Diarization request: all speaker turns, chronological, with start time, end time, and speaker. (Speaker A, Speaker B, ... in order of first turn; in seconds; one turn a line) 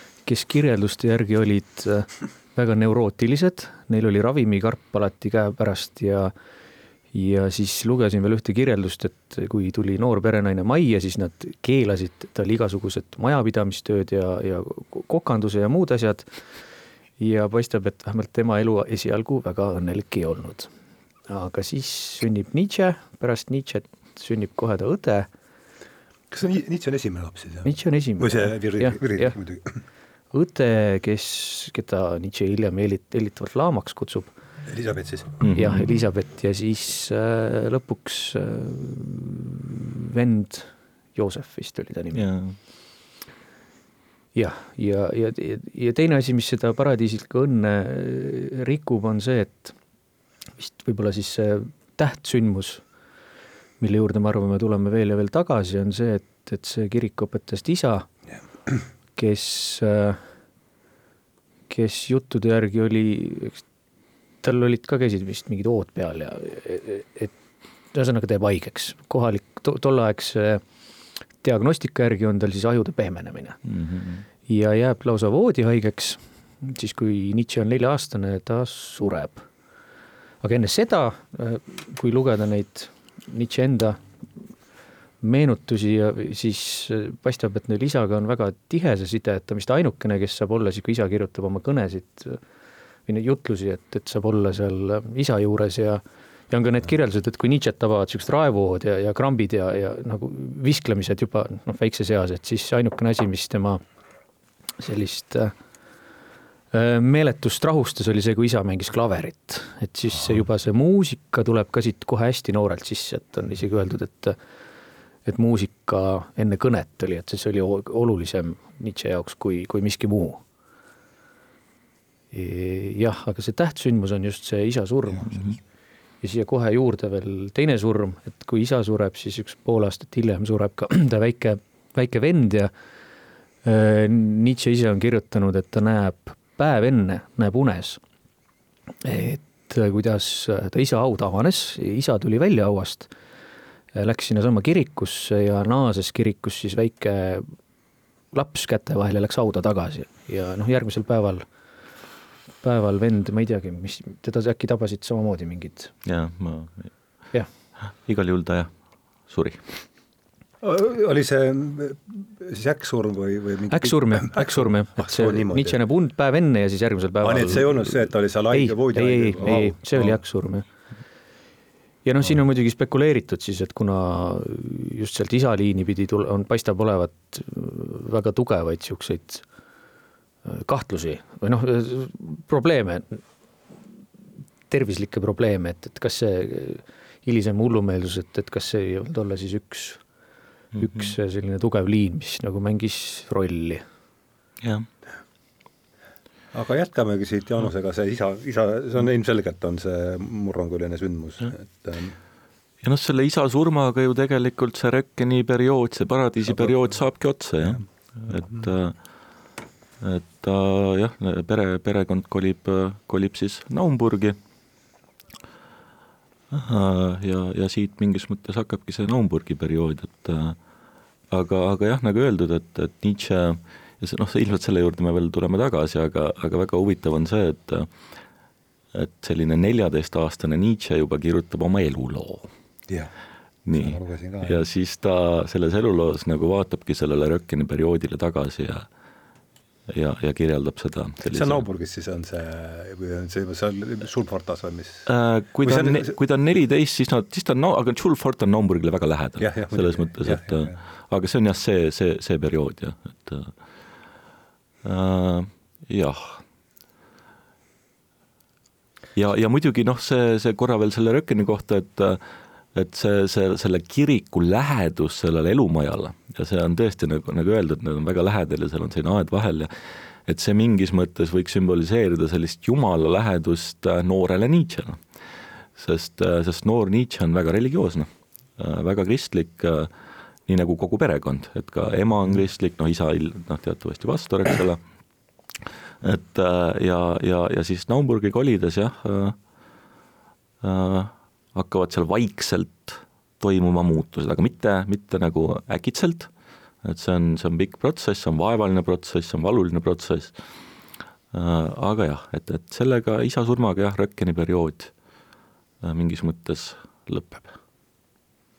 Speaker A: 0.2-6.3
Speaker A: 7.1-16.3
Speaker A: 17.2-20.7
Speaker A: 21.3-25.3
Speaker B: 26.3-29.8
Speaker A: 27.6-29.3
Speaker A: 30.3-34.3
Speaker B: 34.7-35.4
Speaker C: 35.4-35.9
Speaker A: 35.5-42.2
Speaker C: 42.1-42.5
Speaker A: 44.3-49.8
Speaker A: 50.6-52.8
Speaker A: 53.8-58.1
Speaker A: 59.1-60.2
Speaker A: 61.7-63.6
Speaker A: 64.4-67.3
Speaker A: 67.9-70.6
Speaker A: 71.4-73.6
Speaker C: 73.7-74.2
Speaker A: 74.5-79.5
Speaker A: 80.4-84.0
Speaker A: 85.2-92.4
Speaker A: 93.1-103.8
Speaker A: 104.8-105.5
Speaker A: 106.7-114.4
Speaker A: 115.2-120.4
Speaker A: 122.3-125.5
Speaker A: 126.2-132.7
Speaker A: 133.6-138.0
Speaker A: 139.0-143.1
Speaker A: 143.9-147.5
Speaker A: 148.3-151.4
Speaker A: 152.6-155.9
Speaker C: 156.0-156.9
Speaker C: 158.0-158.7
Speaker C: 159.2-159.7
Speaker B: 160.6-165.8
Speaker A: 163.7-168.0
Speaker B: 167.2-170.2
Speaker A: 168.5-170.6
Speaker A: 172.0-179.4
Speaker A: 180.4-183.2
Speaker A: 184.7-190.0
Speaker A: 190.8-193.8
Speaker B: 196.5-202.2
Speaker C: 202.8-209.0
Speaker C: 210.0-214.4
Speaker C: 216.5-220.6
Speaker C: 221.3-227.9
Speaker C: 228.9-232.5
Speaker C: 233.7-238.9
Speaker B: 233.7-234.6
Speaker C: 239.9-241.6
Speaker B: 241.2-245.1
Speaker C: 245.1-253.5
Speaker B: 245.6-246.1
Speaker B: 249.4-250.8
Speaker C: 254.8-256.4
Speaker C: 259.1-262.2
Speaker C: 262.7-269.7
Speaker C: 270.3-275.0
Speaker C: 275.8-279.9
Speaker C: 280.5-284.8
Speaker C: 286.0-289.4
Speaker C: 290.6-296.3
Speaker C: 296.8-300.3
Speaker C: 301.3-304.9
Speaker C: 305.8-307.5